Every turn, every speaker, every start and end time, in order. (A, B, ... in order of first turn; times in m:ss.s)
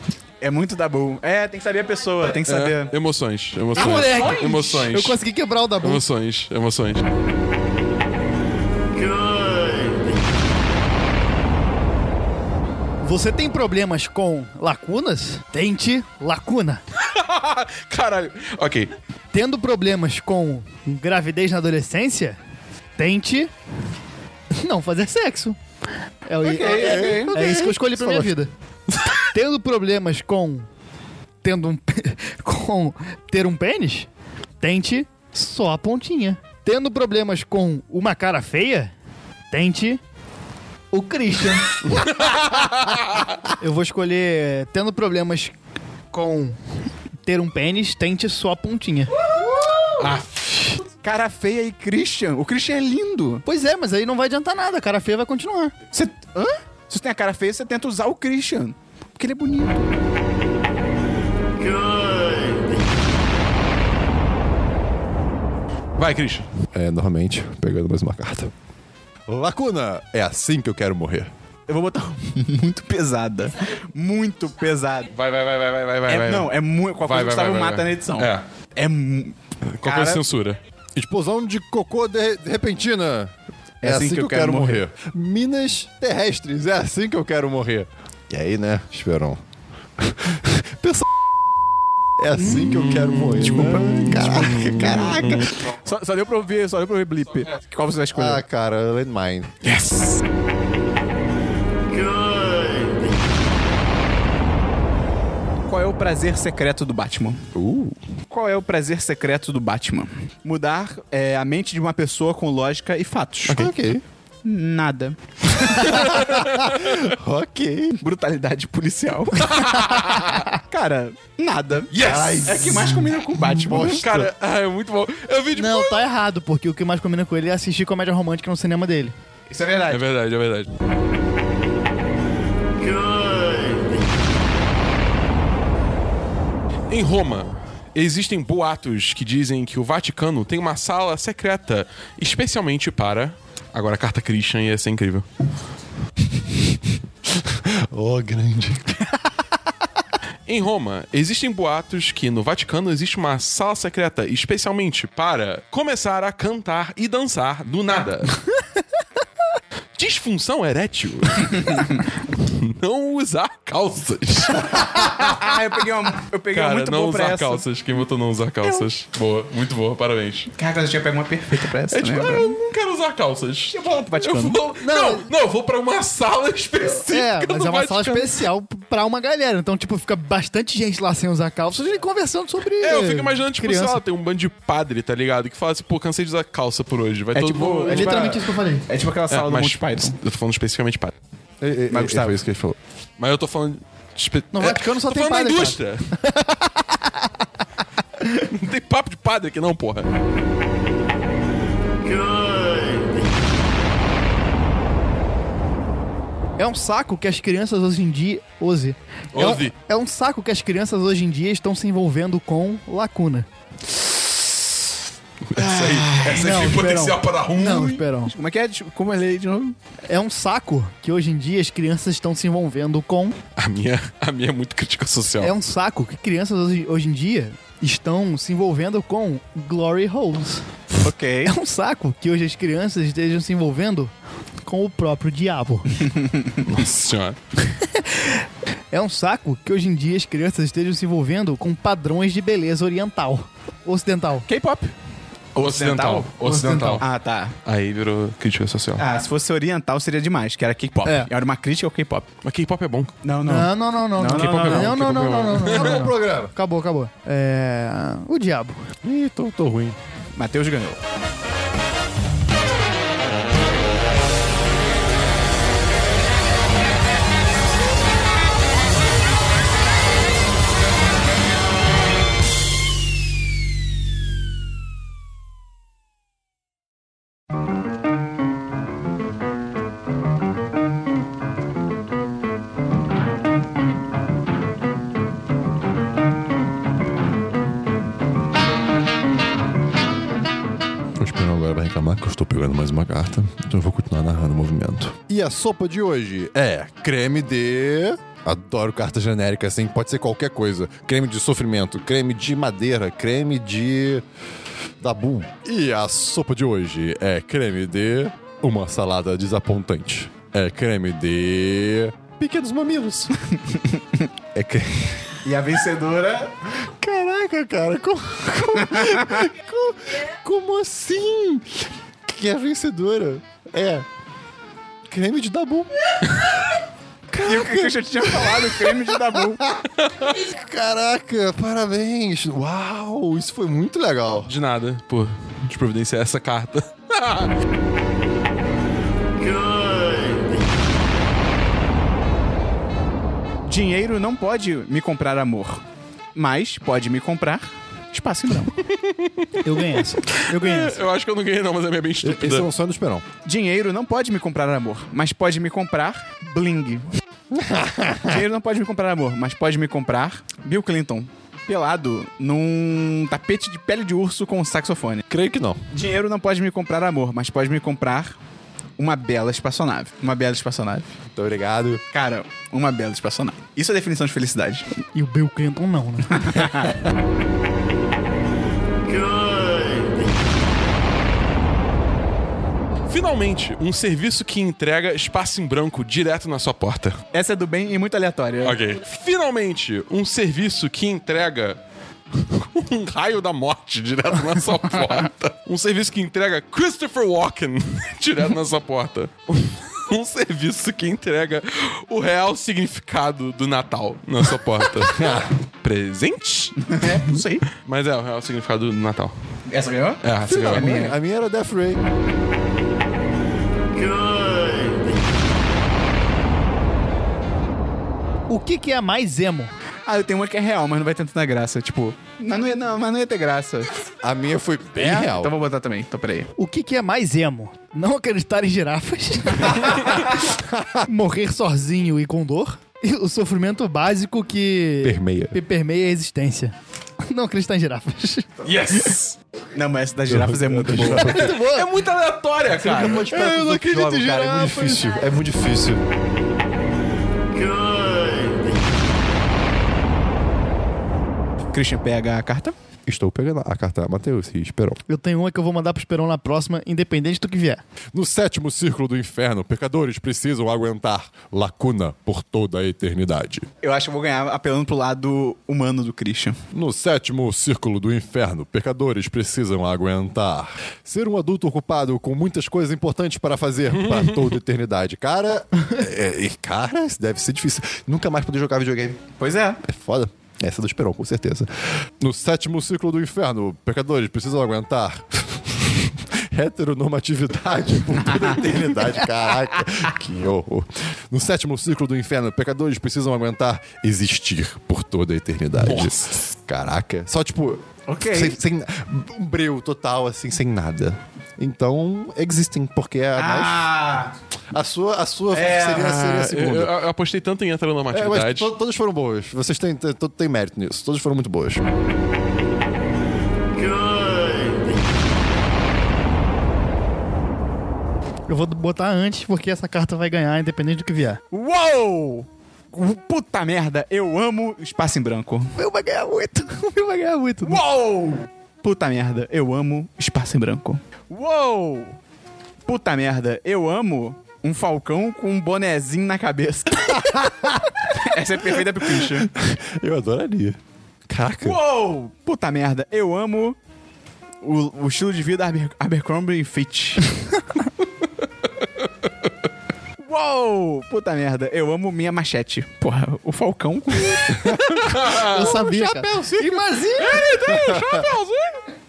0:00.4-0:02.9 A
0:02.4-0:05.2 B
0:03.7-0:04.5 A
0:03.7-0:06.0 C
0:05.8-0:07.0 B
0:13.0-0:16.8 C
0:17.0-0:18.9 B
0:19.3-0:22.4 C
0:23.0-0:23.5 C
0:24.5-0:25.6 C
0:26.2-0:28.5 C
0:26.4-0:27.4 A
0:26.6-0:28.3 D
0:29.3-0:30.7 C
0:31.4-0:34.1 C
0:34.6-0:38.9 C
0:39.5-0:40.0 C
0:40.9-0:42.0 C
0:41.8-0:43.4 B
0:43.6-0:45.5 C
0:46.1-0:46.6 C
0:47.2-0:49.1 C
0:50.0-0:50.6 B
0:51.0-0:53.4 A
0:53.4-0:55.7 C
0:55.9-1:00.0 A
1:06.0-1:06.5 B
1:06.7-1:08.5 D
1:09.3-1:11.3 D
1:11.7-1:15.1 A
1:15.1-1:18.4 B
1:16.1-1:20.2 A
1:19.7-1:20.6 B
1:20.9-1:29.4 D
1:23.8-1:24.8 A
1:30.0-1:31.0 D
1:32.2-1:35.4 D
1:32.4-1:35.6 B
1:33.4-1:38.4 A
1:38.1-1:39.6 D
1:39.6-1:40.2 B
1:45.7-1:47.5 A
1:47.5-1:48.0 D
1:48.3-1:53.7 A
1:53.4-1:54.0 D
1:54.4-1:55.2 A
1:55.6-1:57.0 B
1:55.8-1:58.0 D
1:58.0-2:04.0 A
1:59.4-2:00.5 B
2:01.9-2:02.4 B
2:02.0-2:04.3 D
2:03.8-2:06.0 B
2:05.5-2:09.1 C
2:09.5-2:10.0 A
2:09.9-2:10.7 B
2:16.9-2:25.2 B
2:27.3-2:29.1 D
2:30.4-2:38.4 B
2:39.9-2:45.5 B
2:44.8-2:47.6 A
2:46.5-2:50.5 B
2:48.6-2:48.9 A
2:50.6-2:52.6 A
2:51.9-2:58.3 B
2:53.7-2:54.6 A
2:54.8-2:55.2 C
2:56.9-3:04.0 C
3:02.8-3:08.4 B
3:07.3-3:10.2 A
3:07.9-3:08.8 C
3:09.3-3:11.1 B
3:11.6-3:12.8 D
3:11.9-3:12.4 A
3:13.2-3:16.1 B
3:14.5-3:17.3 C
3:18.4-3:20.1 B
3:26.6-3:33.5 C
3:29.3-3:29.7 B
3:35.5-3:38.0 B
3:35.6-3:36.8 A
3:36.3-3:38.3 C
3:38.2-3:39.8 A
3:40.1-3:43.4 C
3:43.6-3:45.5 B
3:45.4-3:50.7 C
3:51.0-3:51.5 A
3:51.4-3:54.1 C
3:54.6-3:56.0 C
3:56.1-3:56.5 A
3:56.6-3:57.4 B
3:57.8-4:04.5 C
4:04.5-4:04.9 A
4:05.5-4:06.3 A
4:05.6-4:07.0 B
4:06.4-4:07.0 C
4:07.0-4:07.6 A
4:07.6-4:09.1 B
4:09.0-4:12.3 A
4:12.4-4:13.2 B
4:13.2-4:15.0 A
4:13.4-4:18.8 C
4:14.3-4:16.0 B
4:15.6-4:16.5 D
4:19.0-4:20.0 D
4:20.3-4:21.0 A
4:51.2-5:04.2 D
5:05.0-5:13.3 D
5:13.5-5:14.0 A
5:14.5-5:15.4 D
5:15.4-5:16.5 A
5:16.8-5:24.1 D
5:18.9-5:19.4 A
5:25.1-5:25.9 D
5:27.3-5:34.5 D
5:27.4-5:29.6 A
5:30.0-5:30.4 B
5:34.4-5:37.5 B
5:43.6-5:45.8 A
5:46.3-5:48.7 A
5:48.8-5:52.7 B
5:49.6-5:51.0 C
5:52.2-5:53.2 D
5:53.4-5:57.1 A
5:57.5-5:58.4 D
5:58.2-6:05.2 A
6:05.3-6:05.8 D
6:05.9-6:08.4 A
6:09.0-6:11.1 A
6:11.3-6:12.0 D
6:12.1-6:14.9 A
6:15.1-6:16.6 C
6:16.3-6:16.9 A
6:23.0-6:27.2 B
6:27.3-6:28.8 A
6:28.6-6:31.8 B
6:32.3-6:47.1 B
6:45.0-6:45.5 D
6:46.9-6:47.7 A
6:47.7-6:49.3 B
6:49.7-6:51.2 A
6:50.2-6:50.9 B
6:50.4-6:52.0 D
6:58.5-6:59.7 C
7:00.0-7:04.0 A
7:04.2-7:05.5 D
7:05.0-7:06.5 A
7:06.6-7:10.2 C
7:10.5-7:11.1 D
7:11.0-7:18.6 C
7:15.0-7:15.6 D
7:18.6-7:19.4 B
7:19.7-7:21.4 A
7:20.3-7:21.5 D
7:21.0-7:21.9 C
7:21.0-7:23.3 B
7:22.7-7:23.2 A
7:22.8-7:26.0 D
7:23.1-7:25.1 C
7:31.7-7:32.7 A
7:33.0-7:35.0 D
7:35.1-7:37.8 C
7:38.1-7:43.7 D
7:43.8-7:46.6 A
7:46.7-7:59.2 D
7:54.0-7:54.6 B
7:59.4-7:59.8 A
7:59.8-8:23.8 D
8:15.8-8:16.3 B
8:18.1-8:18.6 A
8:23.4-8:24.3 A
8:24.7-8:27.0 D
8:25.5-8:26.4 A
8:26.2-8:28.7 B
8:28.1-8:31.8 D
8:38.5-8:41.4 C
8:41.5-8:45.7 A
8:45.8-8:47.8 C
8:47.6-8:52.2 A
8:52.8-8:57.4 A
8:57.1-8:57.9 D
8:58.1-8:59.5 A
8:58.6-9:01.8 D
9:01.6-9:03.8 A
9:04.6-9:07.3 A
9:10.2-9:14.8 A
9:14.6-9:16.4 B
9:14.6-9:15.0 D
9:15.4-9:17.5 C
9:15.6-9:16.8 D
9:17.0-9:18.8 B
9:17.5-9:18.3 D